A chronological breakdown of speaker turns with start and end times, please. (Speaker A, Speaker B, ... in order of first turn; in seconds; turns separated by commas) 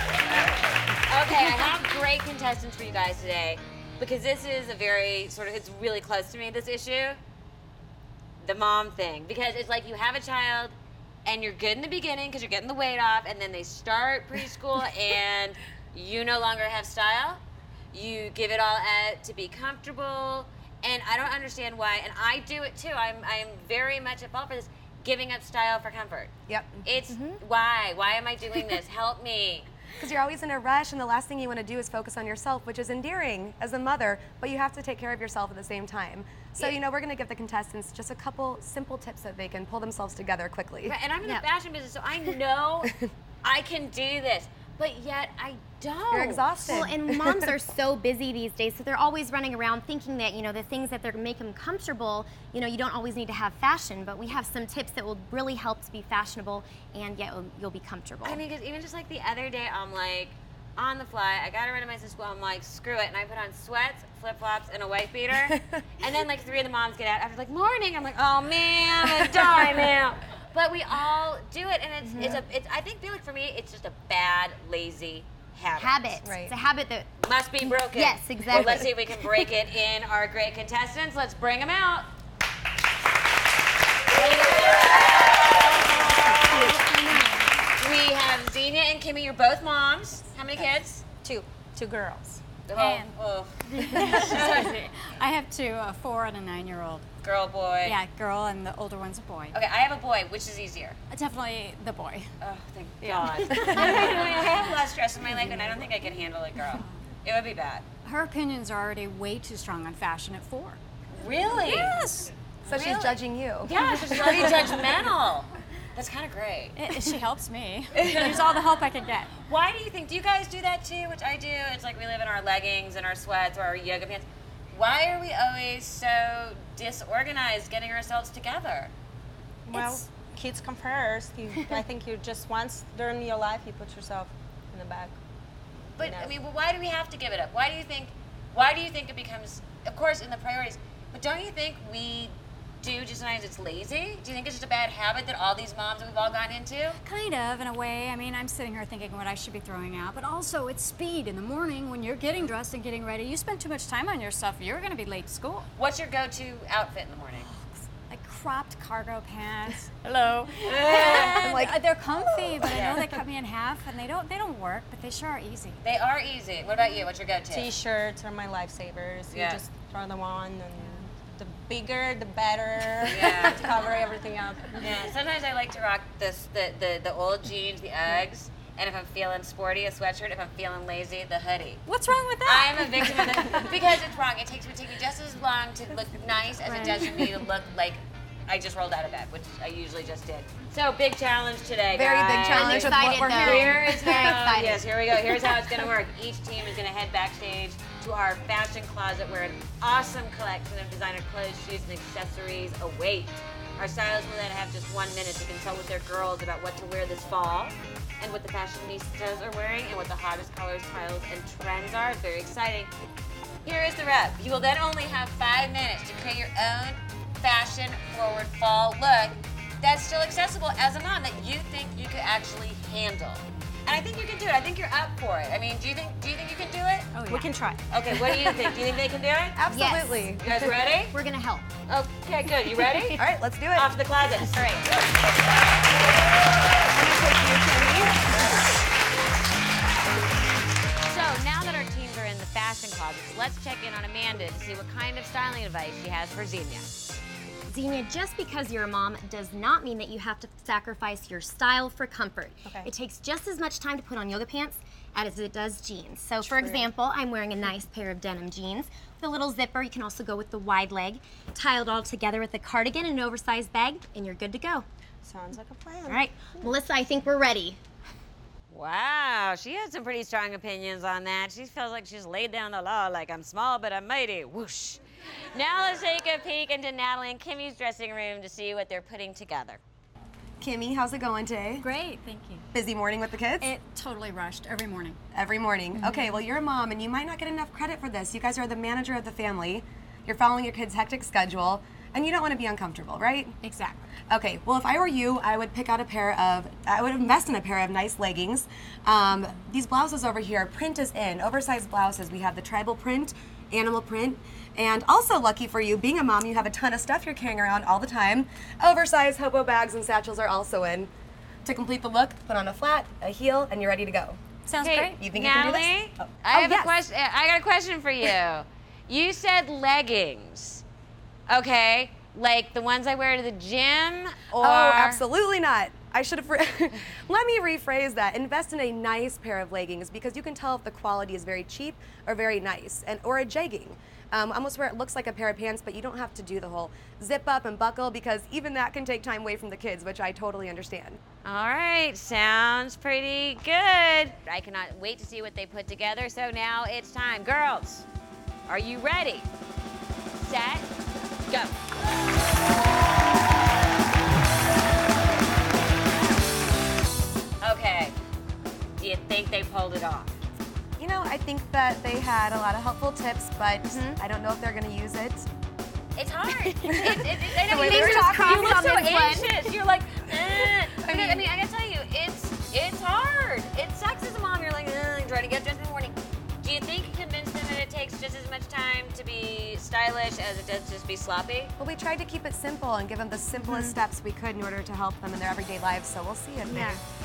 Speaker A: 0.3-0.5, Speaker A: 1.1-7.2, Speaker A: 8.4-10.7, Speaker A: 11.2-17.4, Speaker A: 17.9-26.3, Speaker B: 26.5-26.8, Speaker A: 26.8-29.7, Speaker C: 27.1-27.4, Speaker B: 30.0-40.9, Speaker A: 40.9-42.9, Speaker A: 43.4-46.9, Speaker B: 46.1-47.5, Speaker C: 46.6-58.4, Speaker A: 58.2-76.2, Speaker C: 72.0-72.4, Speaker B: 72.2-72.4, Speaker C: 75.8-77.1, Speaker B: 76.2-76.5, Speaker A: 77.2-82.1, Speaker C: 77.7-79.4, Speaker A: 84.1-86.6, Speaker D: 86.3-87.5, Speaker A: 87.8-91.0, Speaker E: 91.2-92.4, Speaker A: 92.7-94.9, Speaker D: 92.7-93.1, Speaker D: 93.7-97.1, Speaker A: 97.2-98.0, Speaker D: 97.8-99.6, Speaker A: 99.5-101.0, Speaker D: 101.1-102.3, Speaker A: 102.4-107.8, Speaker E: 103.0-103.8, Speaker D: 103.7-104.2, Speaker D: 108.0-110.8, Speaker A: 111.1-112.1, Speaker D: 111.6-112.3, Speaker A: 112.6-116.9, Speaker B: 112.7-114.8, Speaker D: 116.8-119.3, Speaker A: 117.9-118.5, Speaker A: 119.5-128.9, Speaker E: 129.7-135.1, Speaker A: 136.0-147.0, Speaker E: 136.0-136.3, Speaker D: 147.0-155.7, Speaker A: 155.8-157.5, Speaker D: 157.4-160.0, Speaker E: 160.0-161.3, Speaker D: 160.6-165.8, Speaker A: 160.6-161.6, Speaker B: 161.3-161.8, Speaker A: 162.6-163.1, Speaker A: 165.8-167.7, Speaker E: 167.5-174.9, Speaker A: 169.3-169.6, Speaker A: 173.0-173.8, Speaker A: 174.8-181.8, Speaker D: 181.8-183.6, Speaker A: 182.4-212.9, Speaker B: 191.9-194.4, Speaker C: 192.5-194.8, Speaker A: 213.6-227.1, Speaker D: 227.1-227.5, Speaker E: 227.3-227.8, Speaker A: 227.9-229.6, Speaker E: 228.3-228.6, Speaker B: 229.6-230.7, Speaker C: 229.7-230.3, Speaker A: 230.4-231.1, Speaker C: 231.1-231.7, Speaker A: 231.9-233.2, Speaker B: 233.1-233.9, Speaker A: 233.7-235.3, Speaker E: 236.9-238.5, Speaker A: 241.0-247.2, Speaker C: 247.7-264.9, Speaker E: 256.4-256.9, Speaker E: 265.2-266.6, Speaker C: 266.1-267.8, Speaker A: 268.7-275.0, Speaker A: 275.5-279.8, Speaker B: 280.6-281.9, Speaker D: 281.8-282.6, Speaker B: 282.7-283.7, Speaker D: 283.6-285.2, Speaker B: 285.3-293.5, Speaker D: 285.9-286.4, Speaker D: 293.6-294.1, Speaker B: 294.3-311.1, Speaker B: 311.6-314.4, Speaker D: 314.6-315.2, Speaker A: 314.8-320.8, Speaker B: 315.2-316.9, Speaker A: 321.5-325.2, Speaker B: 324.6-341.2, Speaker A: 341.4-348.1, Speaker A: 348.7-349.5, Speaker A: 350.4-350.9, Speaker A: 351.5-351.7, Speaker A: 357.6-358.1, Speaker A: 359.0-360.4, Speaker B: 361.0-365.5, Speaker C: 363.8-364.2, Speaker A: 366.1-381.7, Speaker B: 366.8-368.7, Speaker C: 367.6-369.6, Speaker B: 371.0-371.4, Speaker B: 381.8-387.0, Speaker C: 383.6-383.9, Speaker C: 386.6-387.0